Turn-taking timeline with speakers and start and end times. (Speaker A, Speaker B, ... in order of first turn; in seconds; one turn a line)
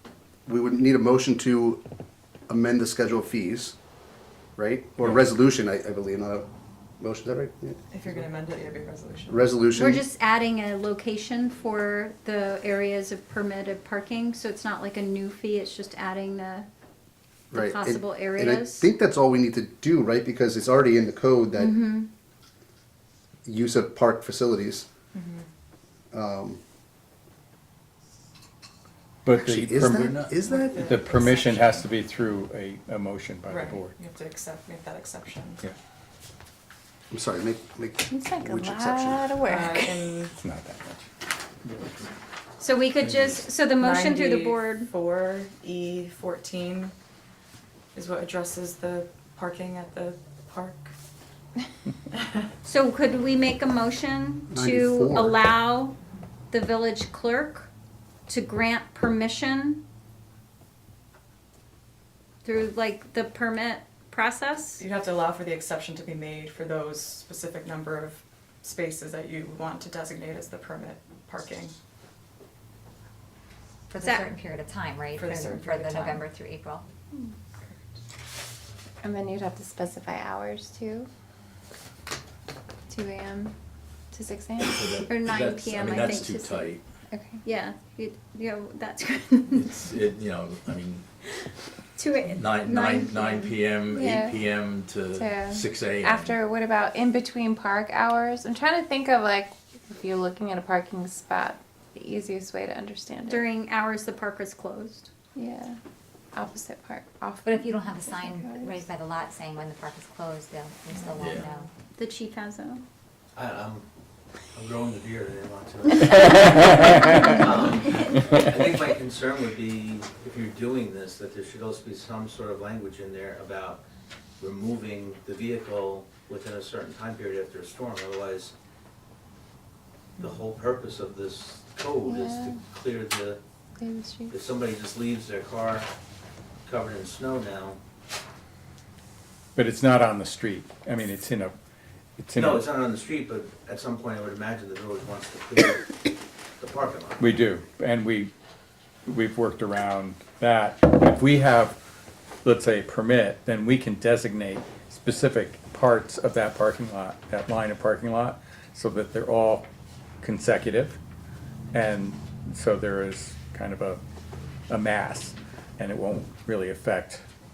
Speaker A: 0.5-1.8
Speaker A: 2.5-3.7
Speaker A: 4.6-6.5
Speaker A: 7.0-7.8
Speaker B: 7.9-9.5
Speaker A: 9.3-10.0
Speaker C: 9.7-16.7
Speaker C: 17.5-18.9
Speaker A: 17.5-21.8
Speaker C: 21.6-22.1
Speaker A: 23.4-24.9
Speaker B: 25.1-25.4
Speaker A: 26.1-26.6
Speaker D: 29.2-30.1
Speaker A: 29.3-30.8
Speaker E: 30.0-30.3
Speaker B: 30.4-31.8
Speaker D: 30.8-33.9
Speaker B: 33.5-35.6
Speaker A: 37.1-39.3
Speaker F: 38.1-40.3
Speaker B: 39.5-40.3
Speaker D: 40.4-41.1
Speaker D: 41.6-42.1
Speaker C: 42.6-44.9
Speaker D: 43.0-43.4
Speaker B: 43.8-46.9
Speaker B: 47.9-50.9
Speaker C: 52.6-56.0
Speaker A: 54.5-55.4
Speaker C: 56.5-57.7
Speaker C: 58.3-59.8
Speaker C: 62.4-64.8
Speaker B: 64.8-71.7
Speaker G: 73.9-76.8
Speaker C: 74.0-74.3
Speaker B: 75.2-76.2
Speaker F: 79.0-81.1
Speaker F: 82.9-83.5
Speaker F: 84.1-85.0
Speaker E: 84.7-86.8
Speaker C: 85.0-86.7
Speaker F: 87.1-87.4
Speaker C: 87.4-89.8
Speaker E: 89.5-91.0
Speaker C: 92.0-94.2
Speaker E: 92.3-96.4
Speaker F: 94.0-94.4
Speaker F: 95.1-103.5
Speaker C: 103.2-105.1
Speaker F: 105.3-105.8
Speaker F: 106.3-108.8
Speaker G: 107.4-111.7
Speaker E: 111.2-111.4
Speaker C: 111.9-112.8
Speaker H: 113.3-113.9
Speaker H: 114.5-123.8
Speaker H: 124.4-128.5
Speaker H: 130.2-133.4
Speaker F: 132.1-132.6
Speaker F: 133.8-134.3
Speaker H: 134.3-135.9
Speaker H: 136.6-137.8
Speaker D: 139.6-141.5
Speaker D: 142.2-142.7
Speaker H: 142.3-147.3
Speaker D: 147.2-148.3
Speaker D: 149.1-151.8
Speaker D: 152.4-159.7
Speaker D: 160.2-161.0
Speaker D: 161.7-164.0
Speaker D: 164.7-167.2